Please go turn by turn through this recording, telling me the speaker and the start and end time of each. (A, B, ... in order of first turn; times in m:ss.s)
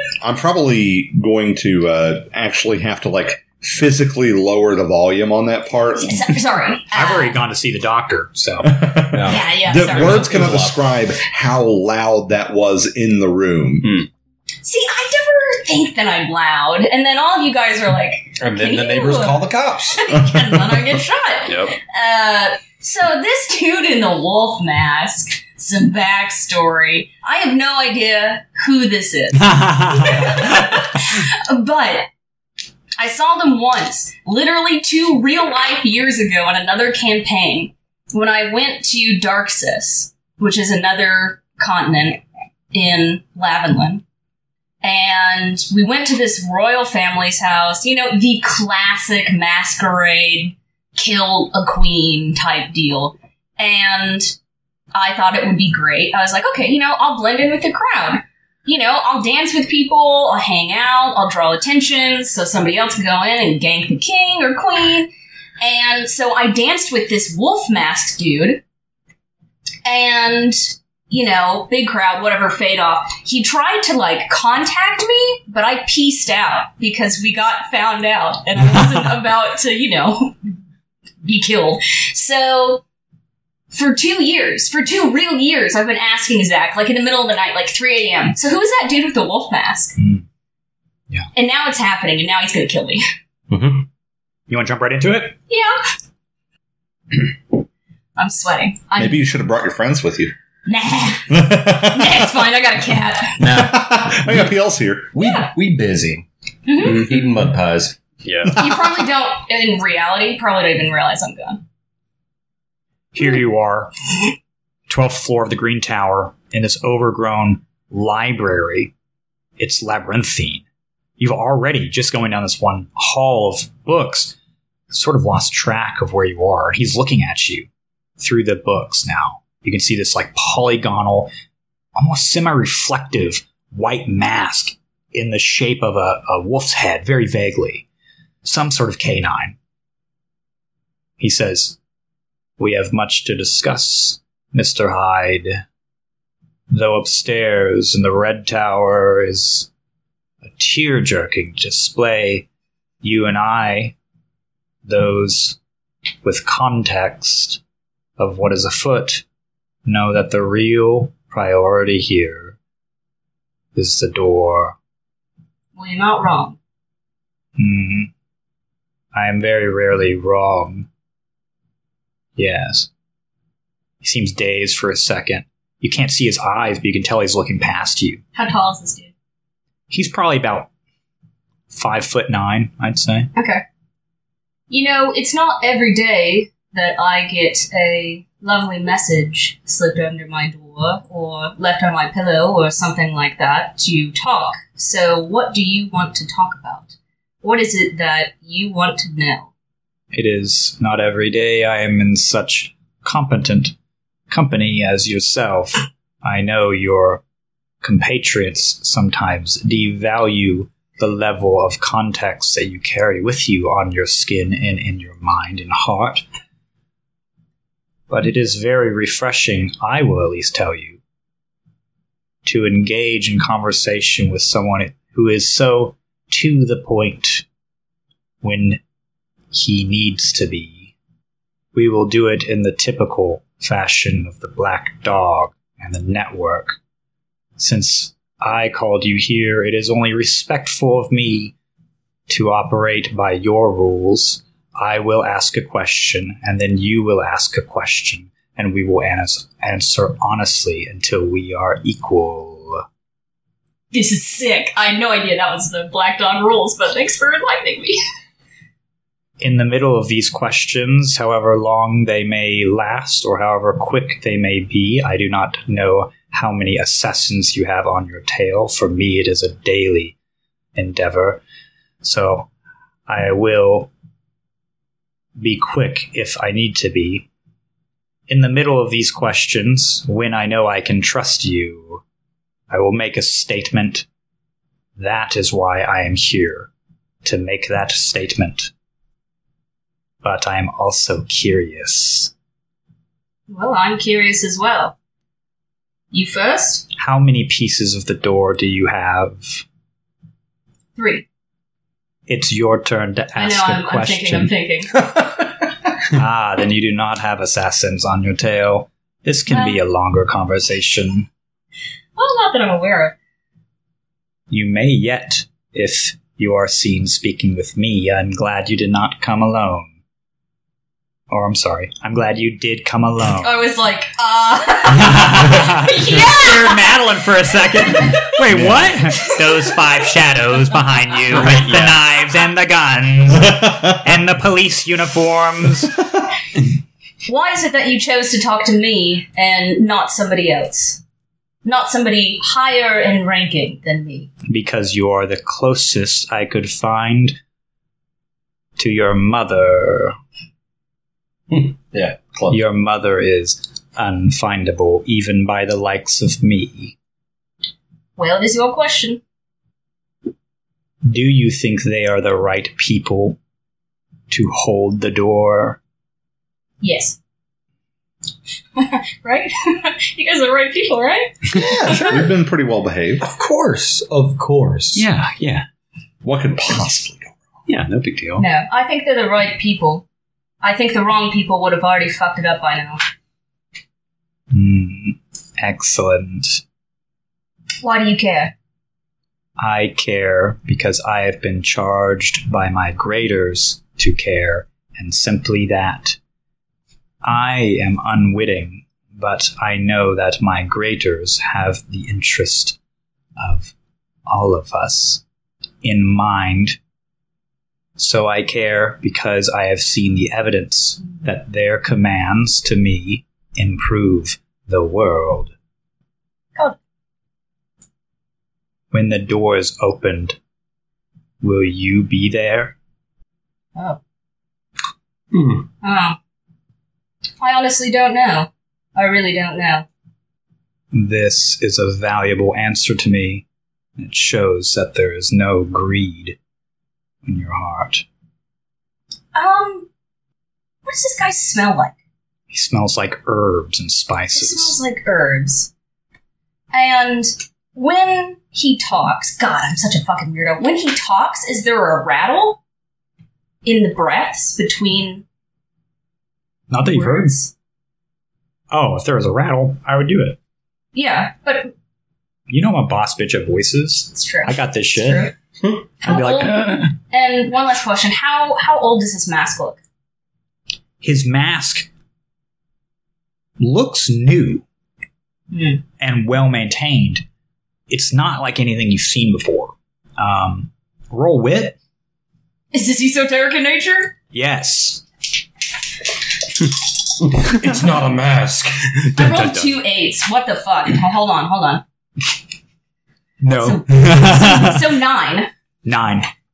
0:00.2-0:06.4 A
0:05.9-0:07.4 B
0:06.9-0:08.8 C
0:08.6-0:14.0 A
0:09.1-0:10.8 D
0:09.2-0:10.7 B
0:14.6-0:32.1 B
0:18.4-0:20.1 D
0:21.5-0:21.8 E
0:30.0-0:30.4 C
0:33.0-0:44.0 B
0:44.8-0:54.4 B
0:54.9-1:05.1 B
1:05.6-1:08.6 B
1:09.8-1:20.4 B
1:21.2-1:22.8 B
1:23.7-1:30.0 B
1:30.0-1:30.2 C
1:31.4-1:33.0 B
1:33.5-1:33.8 D
1:34.5-1:35.4 C
1:35.5-1:35.8 B
1:38.2-1:39.2 B
1:39.0-1:40.3 A
1:40.7-1:43.5 B
1:41.3-1:42.3 A
1:43.4-1:44.5 D
1:43.4-1:45.2 A
1:45.1-1:46.2 D
1:45.2-1:45.5 B
1:46.7-1:47.0 B
1:46.8-1:48.0 D
1:48.2-1:48.6 E
1:48.6-1:51.6 B
1:53.1-1:53.9 C
1:54.9-1:58.9 C
1:59.6-2:00.6 C
2:01.2-2:04.4 C
2:04.9-2:07.7 C
2:08.2-2:11.3 C
2:12.0-2:17.9 C
2:18.4-2:19.6 C
2:21.2-2:21.8 C
2:22.6-2:25.6 C
2:26.7-2:29.7 C
2:30.4-2:32.5 C
2:33.0-2:34.0 C
2:34.8-2:35.6 C
2:36.2-2:37.6 C
2:38.2-2:39.2 C
2:39.8-2:42.6 C
2:43.8-2:44.8 C
2:45.8-2:46.6 B
2:47.6-2:48.1 C
2:49.1-2:50.9 C
2:52.4-2:52.9 C
2:54.0-2:58.2 C
2:58.4-2:59.1 B
2:59.9-3:00.7 C
3:01.7-3:03.3 C
3:03.4-3:03.6 B
3:04.7-3:19.5 B
3:20.1-3:23.8 C
3:24.3-3:27.2 C
3:27.8-3:36.2 C
3:38.1-3:41.0 C
3:42.4-3:47.4 C
3:48.4-3:48.8 C
3:49.5-3:50.9 C
3:51.7-3:56.8 C
3:57.6-4:01.5 C
4:02.3-4:12.8 C
4:13.9-4:18.0 B
4:19.4-4:30.2 C
4:30.8-4:31.4 C
4:32.0-4:32.5 C
4:33.1-4:33.9 C
4:35.4-4:37.3 C
4:38.3-4:42.0 C
4:42.7-4:44.1 C
4:45.0-4:46.7 C
4:47.2-4:48.7 C
4:50.2-4:52.3 C
4:53.5-4:55.0 B
4:56.1-4:56.9 B
4:57.0-4:59.6 C
5:01.0-5:01.3 B
5:02.3-5:04.5 C
5:03.4-5:05.1 B
5:06.0-5:11.3 C
5:09.5-5:09.8 B
5:12.2-5:13.2 B
5:14.5-5:19.9 C
5:21.3-5:23.6 C
5:23.4-5:26.9 B
5:24.9-5:36.0 C
5:27.9-5:28.4 B
5:28.5-5:28.8 A
5:29.1-5:29.7 B
5:31.3-5:32.0 E
5:37.3-5:41.0 B
5:41.6-5:44.3 B
5:44.5-5:47.4 C
5:48.8-5:50.2 C
5:51.5-5:52.6 D
5:52.5-5:57.0 C
5:58.2-5:59.2 B
6:01.0-6:03.4 C
6:04.3-6:05.8 C
6:06.8-6:07.2 B
6:08.8-6:12.2 B
6:11.6-6:13.3 A
6:11.8-6:12.3 D
6:13.2-6:15.1 D
6:15.0-6:15.6 E
6:16.2-6:17.4 A
6:17.7-6:18.5 E
6:18.4-6:20.0 B
6:20.6-6:23.0 B
6:24.5-6:26.6 C
6:27.8-6:28.5 B
6:29.6-6:36.2 C
6:37.2-6:42.8 C
6:43.4-6:43.7 C
6:44.3-6:45.2 C
6:45.8-6:46.8 C
6:48.0-6:55.5 C
6:58.9-7:00.4 C
7:01.4-7:02.8 C
7:05.3-7:05.7 D
7:05.8-7:06.2 B
7:07.4-7:09.9 B
7:10.9-7:13.4 C
7:14.0-7:16.4 C
7:17.2-7:18.0 C
7:19.3-7:19.9 B
7:20.8-7:22.0 B
7:22.5-7:24.8 C
7:24.3-7:25.7 B
7:26.7-7:32.6 B
7:33.6-7:35.2 B
7:36.7-7:37.4 C
7:36.8-7:37.5 B
7:38.7-7:40.4 C
7:40.9-7:41.7 B
7:42.5-7:45.3 C
7:44.1-7:45.3 B
7:46.0-7:49.8 B
7:46.0-7:46.9 C
7:51.0-7:51.9 C
7:53.6-7:54.6 C
7:55.5-7:55.8 B
7:56.0-7:57.2 C
7:57.9-8:01.8 C
8:02.7-8:04.1 B
8:04.3-8:05.0 C
8:07.4-8:09.2 D
8:09.2-8:09.8 E
8:09.2-8:11.8 B
8:13.4-8:14.9 C
8:13.5-8:15.5 B
8:15.8-8:16.3 C